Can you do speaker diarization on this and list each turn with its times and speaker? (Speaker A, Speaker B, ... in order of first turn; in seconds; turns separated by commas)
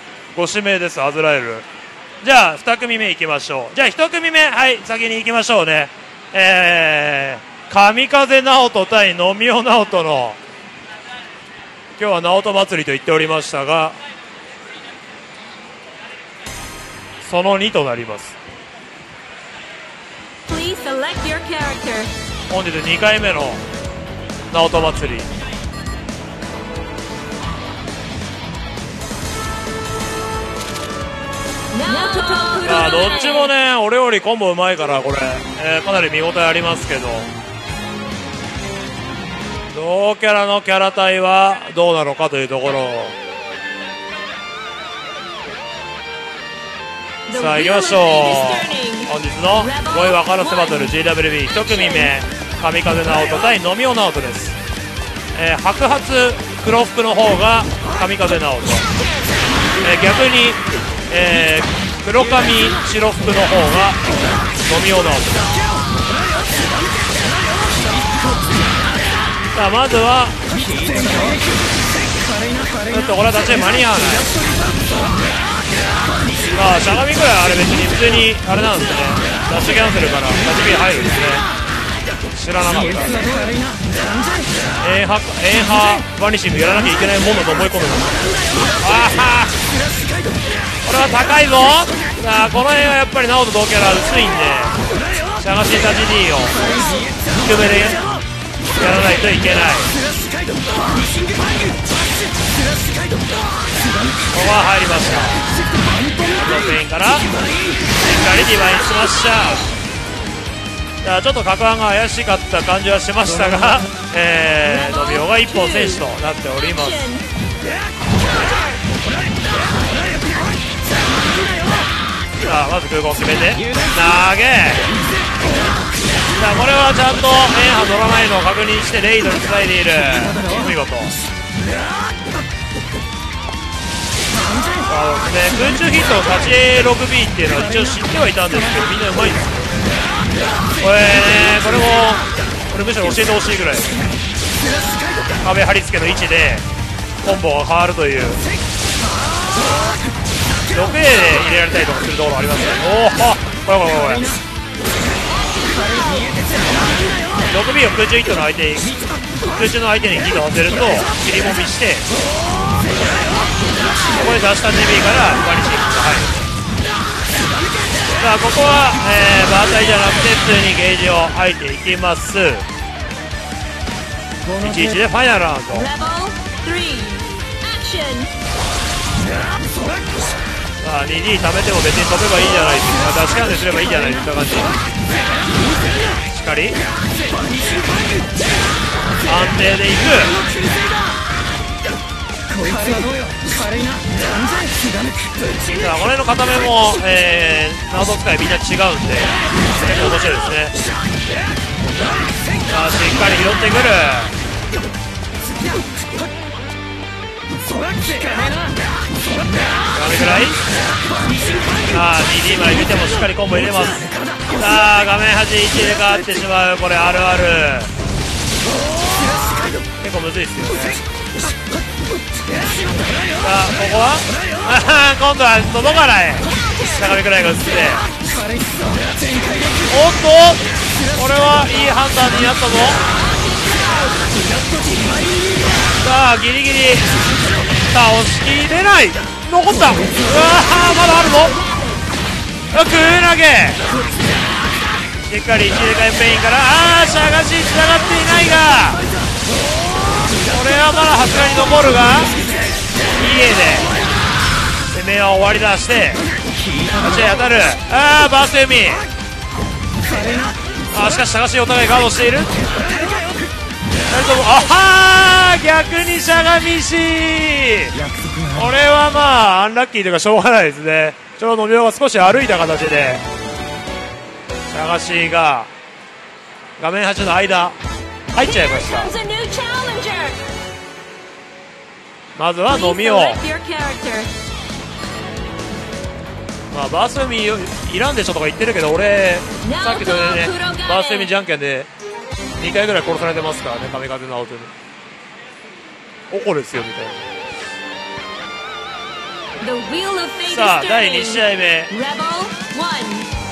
Speaker A: 0.3-1.6, Speaker A: 2.2-10.4, Speaker A: 12.0-14.0, Speaker A: 17.2-18.4, Speaker B: 20.5-22.1, Speaker A: 22.5-23.6, Speaker A: 24.5-25.3, Speaker B: 31.7-33.5, Speaker A: 32.6-37.3, Speaker A: 39.7-43.2, Speaker B: 47.3-50.9, Speaker A: 47.3-54.5, Speaker A: 55.3-58.9, Speaker A: 59.8-64.0, Speaker A: 64.7-65.6, Speaker A: 69.5-70.4, Speaker A: 72.9-74.3, Speaker A: 76.5-81.5, Speaker A: 82.3-83.2, Speaker A: 84.8-88.2, Speaker A: 88.8-89.5, Speaker A: 90.8-94.8, Speaker A: 95.4-96.6, Speaker A: 97.3-98.0, Speaker A: 98.8-99.9, Speaker A: 104.3-105.4, Speaker A: 106.3-107.3, Speaker A: 108.0-109.7, Speaker A: 111.0-117.1, Speaker B: 114.8-116.0, Speaker B: 116.9-117.2, Speaker A: 122.4-124.9, Speaker A: 126.3-131.1, Speaker A: 134.9-139.6, Speaker A: 140.8-143.9, Speaker A: 145.4-146.6, Speaker A: 147.2-148.4, Speaker A: 150.7-154.3, Speaker A: 157.5-162.1, Speaker A: 164.1-166.3, Speaker A: 168.2-172.6, Speaker A: 174.5-175.9, Speaker B: 175.8-178.3, Speaker A: 180.8-184.7, Speaker A: 186.3-186.8, Speaker A: 189.2-190.4, Speaker A: 195.7-200.8, Speaker A: 202.7-204.3, Speaker A: 209.9-210.6, Speaker A: 211.9-217.9, Speaker A: 220.0-221.0, Speaker A: 223.4-228.1, Speaker A: 229.9-230.6, Speaker A: 231.1-233.0, Speaker A: 236.0-237.2, Speaker A: 237.9-241.6, Speaker A: 242.7-243.8, Speaker A: 245.3-249.0, Speaker A: 250.5-252.3, Speaker A: 253.2-253.9, Speaker A: 254.9-256.2, Speaker A: 256.9-259.1, Speaker A: 260.9-262.6, Speaker A: 264.1-268.0, Speaker A: 268.5-273.2, Speaker A: 274.7-275.7, Speaker A: 276.8-277.8, Speaker A: 278.3-279.1, Speaker B: 278.5-280.4, Speaker A: 282.4-283.4, Speaker B: 282.7-284.3, Speaker A: 286.7-291.9, Speaker B: 289.6-291.3, Speaker A: 292.6-294.7, Speaker A: 296.3-297.2, Speaker B: 299.6-303.3, Speaker A: 300.4-301.9